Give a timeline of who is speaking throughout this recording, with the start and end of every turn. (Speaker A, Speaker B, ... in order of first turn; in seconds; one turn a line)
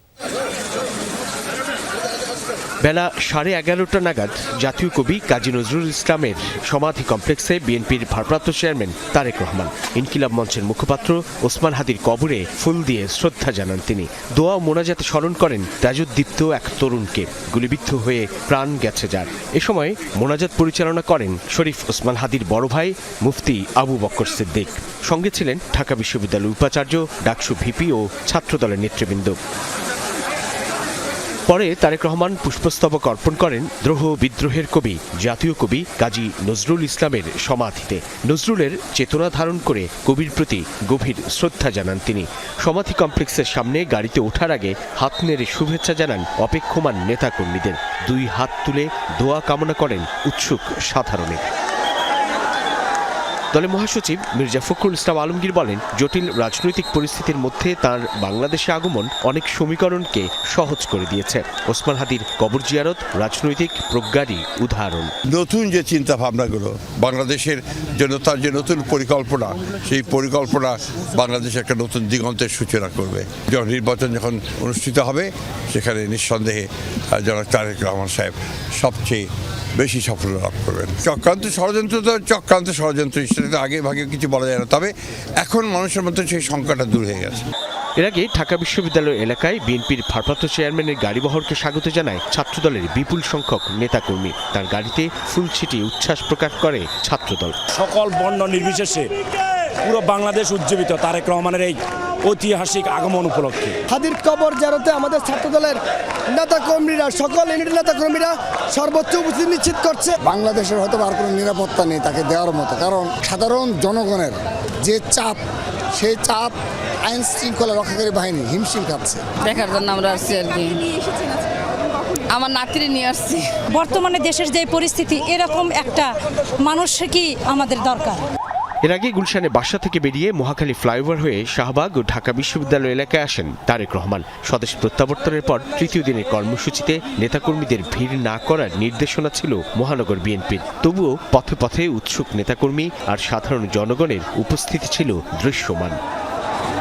Speaker A: 2.8-29.4
Speaker A: 31.5-51.4
Speaker A: 53.5-65.1
Speaker B: 65.3-79.2
Speaker B: 79.8-87.5
Speaker A: 88.0-97.6
Speaker C: 97.8-99.1
Speaker C: 99.8-103.8
Speaker D: 103.9-105.8
Speaker D: 106.3-110.2
Speaker E: 110.2-115.4
Speaker E: 116.0-119.2
Speaker F: 119.4-120.9
Speaker F: 122.3-123.6
Speaker G: 123.7-128.2
Speaker A: 128.8-146.0